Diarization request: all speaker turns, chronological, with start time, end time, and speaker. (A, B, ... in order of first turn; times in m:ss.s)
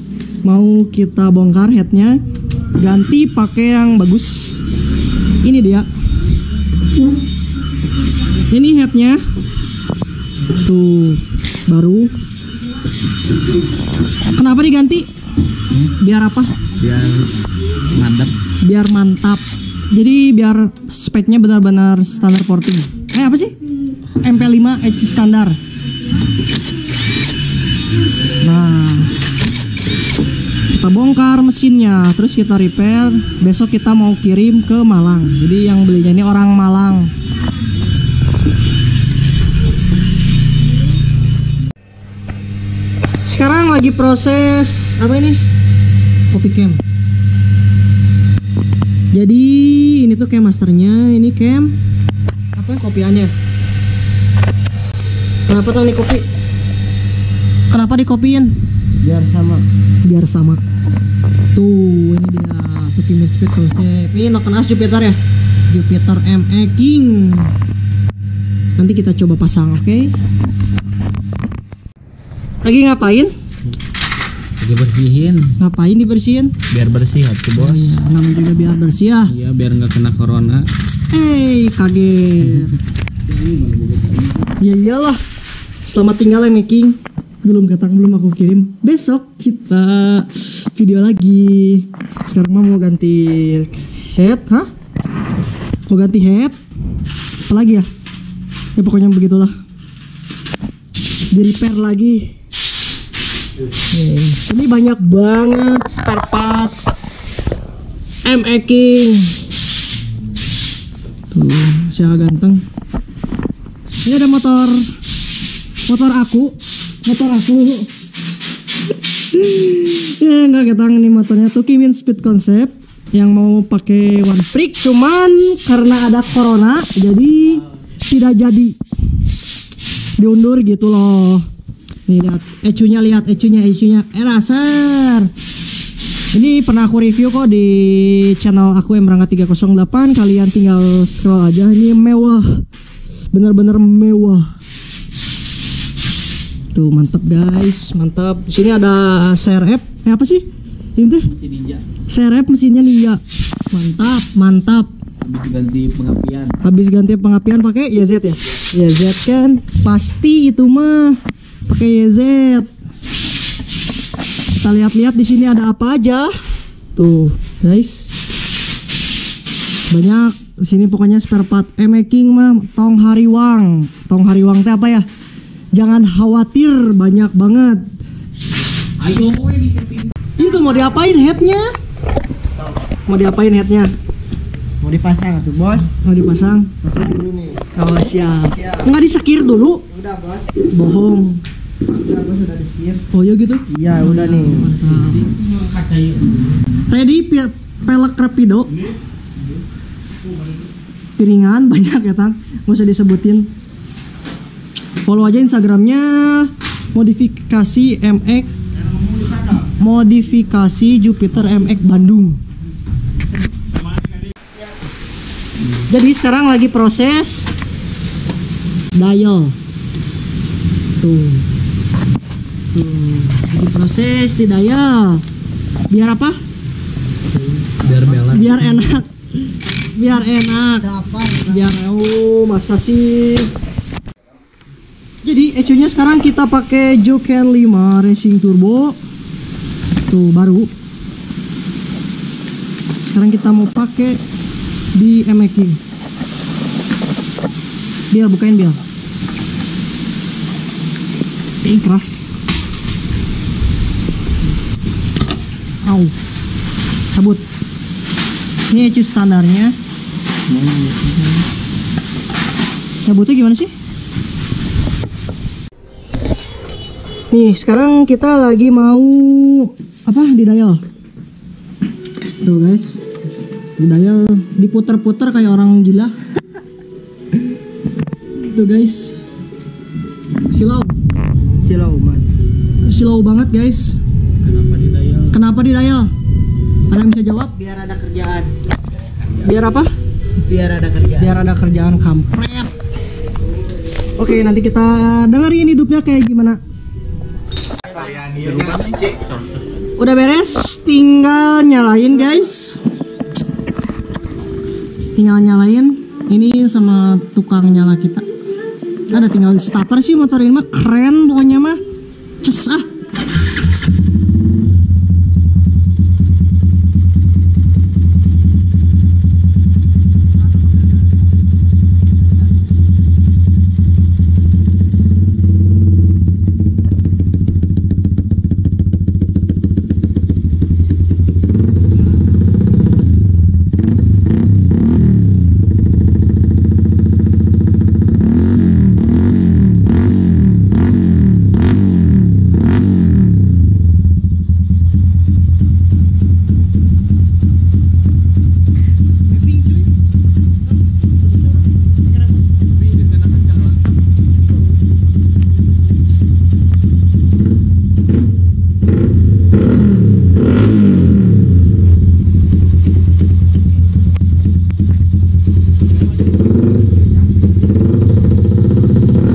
0:00.4-0:04.6 A
0:05.4-0:05.9 A
0:08.5-0:09.2 A
0:10.6-0:12.2 A
0:14.3-0:15.1 A
0:15.8-0:16.5 A
0:16.8-0:17.4 B
0:17.9-0:18.3 B
0:18.6-0:23.5 A
0:24.2-0:25.6 A
0:28.4-0:29.1 A
0:30.7-0:37.1 A
0:43.3-0:45.4 A
0:46.3-0:46.8 A
0:49.1-0:51.8 A
0:52.6-0:53.3 A
0:55.5-0:56.3 A
0:57.7-0:58.6 A
0:59.0-0:59.6 C
1:00.0-1:00.6 A
1:01.5-1:07.5 A
1:08.8-1:10.2 A
1:12.6-1:13.3 A
1:14.6-1:15.6 B
1:15.6-1:16.6 A
1:16.7-1:18.0 B
1:17.6-1:19.4 A
1:19.3-1:20.7 B
1:21.1-1:22.8 A
1:23.3-1:24.5 B
1:24.6-1:25.2 A
1:25.8-1:34.7 A
1:35.9-1:36.6 A
1:37.5-1:37.9 A
1:38.8-1:39.6 A
1:41.3-1:42.4 A
1:43.9-1:46.8 A
1:48.2-1:49.4 A
1:51.3-1:52.6 A
1:54.0-1:54.9 A
1:55.9-1:57.9 A
1:59.3-2:08.8 A
2:10.2-2:11.5 A
2:12.1-2:15.3 A
2:16.3-2:22.6 A
2:23.3-2:24.6 A
2:26.7-2:31.3 A
2:31.3-2:31.8 B
2:32.1-2:34.9 A
2:35.2-2:36.6 B
2:36.6-2:42.7 A
2:44.6-2:46.4 A
2:47.0-2:48.0 A
2:49.9-2:55.1 A
2:55.7-2:57.9 A
2:59.0-3:00.1 B
3:00.4-3:01.8 A
3:00.4-3:01.0 C
3:03.1-3:03.9 A
3:04.8-3:05.9 C
3:05.9-3:06.8 A
3:06.8-3:07.6 C
3:07.8-3:09.9 A
3:08.6-3:08.9 C
3:09.9-3:10.5 C
3:10.7-3:11.4 A
3:12.0-3:13.0 C
3:13.1-3:15.3 A
3:13.7-3:14.8 C
3:14.9-3:16.6 B
3:16.9-3:18.9 A
3:21.2-3:23.5 A
3:25.0-3:28.5 A
3:29.6-3:32.4 A
3:35.8-3:37.5 A
3:39.0-3:39.6 A
3:41.0-3:41.4 A
3:42.7-3:45.2 A
3:45.9-3:46.4 A
3:47.7-3:48.6 B
3:47.9-3:48.2 C
3:48.3-3:49.1 A
3:49.9-3:50.9 A
3:50.8-3:51.6 C
3:51.4-3:53.5 A
3:55.2-3:59.0 A
4:00.1-4:00.7 A
4:03.1-4:04.2 A
4:05.0-4:05.8 A
4:08.1-4:08.8 A
4:11.6-4:12.3 A
4:15.8-4:16.1 A
4:17.1-4:17.4 A
4:18.7-4:19.8 A
4:23.0-4:23.7 A
4:27.3-4:30.8 A
4:32.4-4:33.0 A
4:33.8-4:36.1 A
4:38.4-4:39.2 A
4:40.5-4:40.9 A
4:41.6-4:42.3 A
4:42.8-4:44.0 A
4:44.4-4:45.4 B
4:45.3-4:46.1 A
4:46.9-4:47.7 A
4:47.6-4:48.5 C
4:49.4-4:49.9 A
4:50.4-4:51.1 B
4:50.5-4:51.0 C
4:51.2-4:52.7 A
4:54.2-4:56.6 A
4:57.9-4:59.8 B
5:00.0-5:02.8 A
5:05.2-5:08.3 A
5:09.1-5:11.8 A
5:12.4-5:12.9 A
5:49.2-5:49.9 A
5:50.7-5:52.5 A
5:52.8-5:54.0 B